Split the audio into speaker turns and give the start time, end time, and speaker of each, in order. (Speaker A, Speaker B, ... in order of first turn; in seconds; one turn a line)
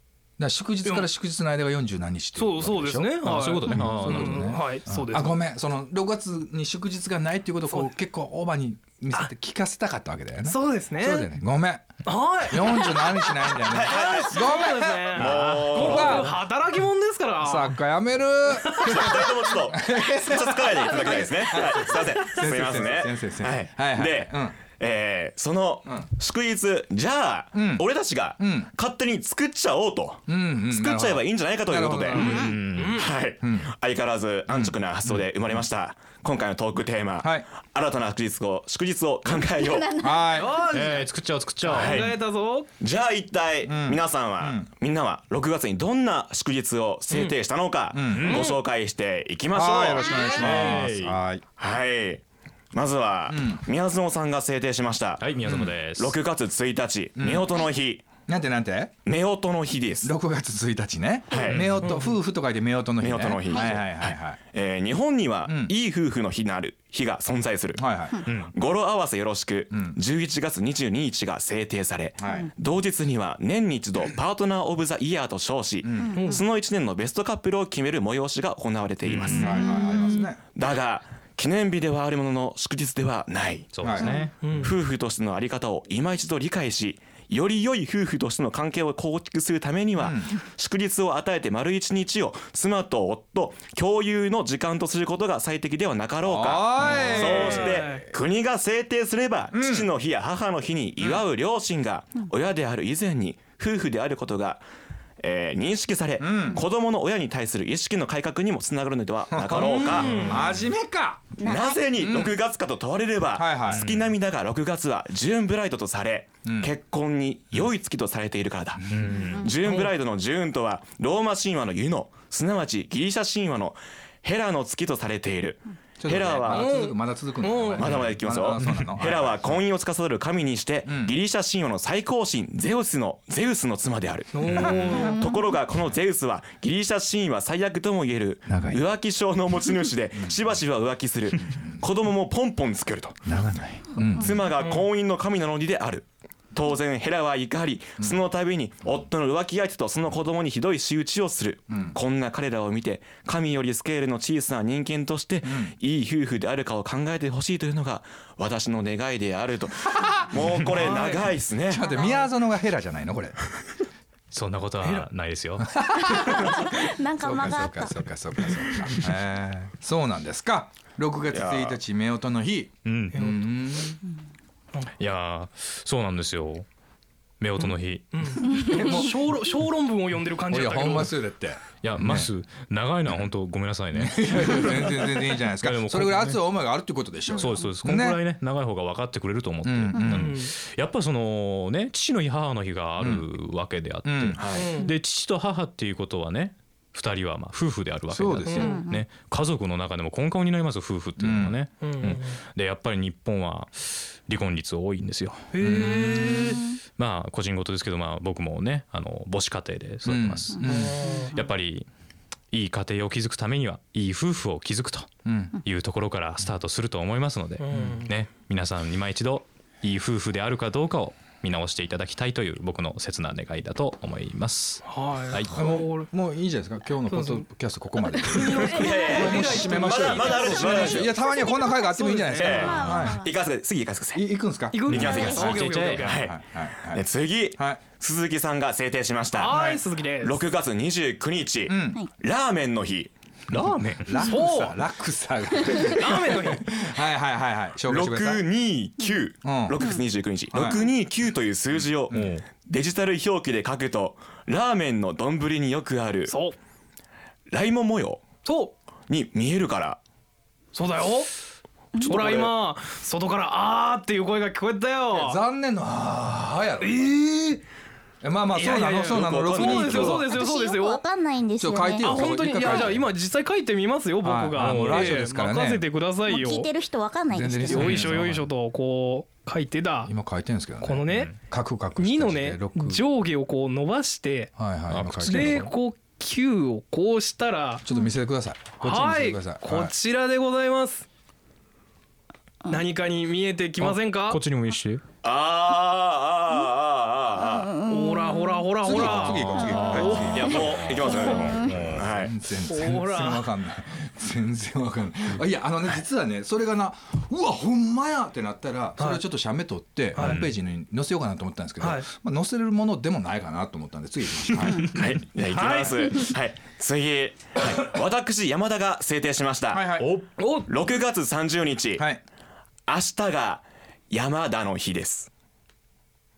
Speaker A: 0.4-16.4
Speaker B: 0.8-1.1
Speaker B: 2.4-5.4
Speaker C: 3.2-4.6
Speaker B: 10.4-11.3
Speaker B: 12.0-17.8
Speaker D: 13.7-14.4
Speaker D: 15.1-16.3
Speaker C: 15.4-15.7
Speaker A: 17.4-24.6
Speaker D: 18.7-32.3
Speaker A: 27.5-27.9
Speaker A: 28.4-28.7
Speaker A: 30.3-32.6
Speaker B: 32.2-33.1
Speaker E: 32.2-32.6
Speaker C: 32.3-33.0
Speaker D: 33.0-40.1
Speaker A: 33.4-33.7
Speaker A: 34.5-34.8
Speaker A: 37.2-37.5
Speaker E: 39.6-40.2
Speaker A: 40.0-40.6
Speaker B: 40.3-42.7
Speaker C: 40.6-42.0
Speaker D: 41.6-42.1
Speaker D: 42.8-50.2
Speaker A: 43.6-44.7
Speaker A: 47.9-48.4
Speaker C: 48.1-48.5
Speaker A: 49.5-51.4
Speaker E: 50.0-50.6
Speaker C: 50.4-51.2
Speaker D: 51.6-58.1
Speaker A: 53.3-53.6
Speaker C: 55.2-56.2
Speaker A: 57.2-57.5
Speaker A: 58.3-58.9
Speaker D: 59.0-60.1
Speaker A: 60.0-64.4
Speaker D: 61.3-61.7
Speaker C: 61.5-61.9
Speaker B: 61.8-62.2
Speaker D: 63.0-67.9
Speaker E: 63.5-63.8
Speaker A: 65.5-65.7
Speaker A: 67.8-68.3
Speaker D: 68.5-79.6
Speaker A: 69.7-70.0
Speaker A: 72.2-72.5
Speaker A: 75.8-76.2
Speaker E: 76.0-76.4
Speaker B: 76.1-76.4
Speaker C: 79.0-79.6
Speaker A: 79.2-80.4
Speaker E: 79.4-80.2
Speaker D: 80.5-83.7
Speaker C: 83.7-84.7
Speaker A: 83.8-84.2
Speaker B: 84.4-84.7
Speaker D: 84.5-104.6
Speaker A: 90.0-90.3
Speaker A: 96.2-98.0
Speaker B: 97.0-98.1
Speaker A: 99.5-99.9
Speaker D: 105.2-110.4
Speaker A: 106.2-106.6
Speaker A: 109.3-111.3
Speaker B: 109.6-110.4
Speaker C: 110.0-110.5
Speaker E: 111.4-111.8
Speaker D: 111.4-126.7
Speaker A: 112.0-112.3
Speaker A: 113.3-113.9
Speaker C: 113.7-114.1
Speaker A: 116.4-116.7
Speaker A: 118.9-119.2
Speaker C: 118.9-119.5
Speaker E: 119.3-119.5
Speaker B: 119.6-119.9
Speaker A: 126.0-129.6
Speaker B: 126.5-128.0
Speaker D: 127.8-143.2
Speaker C: 127.9-129.0
Speaker A: 130.8-131.1
Speaker B: 134.3-135.3
Speaker E: 134.8-135.4
Speaker A: 138.5-138.8
Speaker A: 140.2-140.4
Speaker A: 141.4-141.7
Speaker A: 143.2-144.4
Speaker D: 144.2-161.9
Speaker B: 144.6-144.8
Speaker A: 151.7-152.0
Speaker A: 155.4-155.8
Speaker A: 160.0-161.1
Speaker B: 160.8-161.2
Speaker A: 161.7-163.4
Speaker E: 161.7-162.2
Speaker C: 164.3-165.7
Speaker B: 164.8-165.1
Speaker A: 165.6-166.6
Speaker E: 166.1-167.9
Speaker A: 167.2-174.0
Speaker D: 171.3-171.8
Speaker C: 172.8-173.3
Speaker C: 175.0-176.7
Speaker C: 177.4-178.6
Speaker B: 177.6-181.1
Speaker A: 180.5-182.3
Speaker C: 181.8-186.4
Speaker A: 183.9-188.2
Speaker E: 187.3-187.7
Speaker C: 187.3-205.9
Speaker A: 189.6-190.4
Speaker B: 190.1-190.5
Speaker A: 194.0-194.6
Speaker D: 194.3-194.7
Speaker B: 194.5-194.9
Speaker A: 198.1-198.8
Speaker B: 198.4-198.8
Speaker E: 198.6-199.0
Speaker A: 201.2-201.6
Speaker B: 201.8-202.4
Speaker B: 205.5-206.6
Speaker A: 205.6-206.6
Speaker C: 207.0-211.9
Speaker A: 210.0-211.0
Speaker B: 210.7-211.3
Speaker C: 212.5-215.1
Speaker A: 215.2-215.6
Speaker C: 215.6-225.7
Speaker B: 217.6-218.1
Speaker B: 224.8-226.1
Speaker A: 225.5-233.3
Speaker B: 227.1-227.4
Speaker B: 228.2-231.0
Speaker D: 228.6-231.2
Speaker E: 230.2-233.3
Speaker B: 231.9-232.7
Speaker D: 232.4-234.2
Speaker A: 234.1-235.1
Speaker B: 234.7-236.2
Speaker D: 234.9-243.1
Speaker C: 234.9-236.0
Speaker E: 234.9-235.5
Speaker A: 236.0-237.8
Speaker B: 239.3-240.4
Speaker A: 241.7-242.0
Speaker C: 243.5-244.3
Speaker A: 243.5-248.4
Speaker B: 244.2-244.8
Speaker B: 245.9-246.7
Speaker D: 247.9-256.4
Speaker A: 249.4-249.9
Speaker A: 250.5-250.9
Speaker A: 252.1-252.3
Speaker C: 252.1-252.4
Speaker B: 256.3-256.6
Speaker D: 257.5-258.2
Speaker B: 258.4-258.7
Speaker D: 259.1-260.0
Speaker B: 260.7-261.3
Speaker E: 261.9-262.4
Speaker D: 262.0-262.4
Speaker B: 262.1-265.4
Speaker A: 265.1-267.2
Speaker B: 266.8-267.6
Speaker A: 268.2-270.2
Speaker B: 268.5-271.0
Speaker D: 269.0-270.2
Speaker E: 270.2-272.9
Speaker A: 271.6-273.1
Speaker B: 272.0-276.7
Speaker A: 274.2-275.8
Speaker C: 274.5-275.2
Speaker E: 276.2-278.0
Speaker A: 277.3-278.4
Speaker B: 277.7-280.1
Speaker C: 277.7-278.4
Speaker A: 280.1-283.0
Speaker B: 280.8-281.3
Speaker C: 281.1-281.4
Speaker B: 282.0-284.5
Speaker A: 284.6-285.7
Speaker C: 284.9-285.7
Speaker B: 285.2-287.8
Speaker A: 287.8-289.9
Speaker B: 288.8-291.1
Speaker B: 292.7-294.4
Speaker C: 293.8-295.0
Speaker D: 295.2-297.8
Speaker E: 297.4-298.7
Speaker B: 297.9-300.4
Speaker A: 298.8-314.9
Speaker C: 299.0-300.4
Speaker E: 299.6-301.7
Speaker D: 299.9-302.3
Speaker C: 301.6-302.1
Speaker B: 302.6-303.5
Speaker B: 309.0-309.2
Speaker C: 310.1-310.5
Speaker B: 310.2-310.5
Speaker B: 311.8-312.1
Speaker D: 314.9-320.0
Speaker B: 315.5-316.3
Speaker A: 319.7-320.2
Speaker C: 320.0-320.3
Speaker B: 320.4-320.7
Speaker D: 320.7-322.1
Speaker A: 321.9-322.2
Speaker D: 322.9-325.3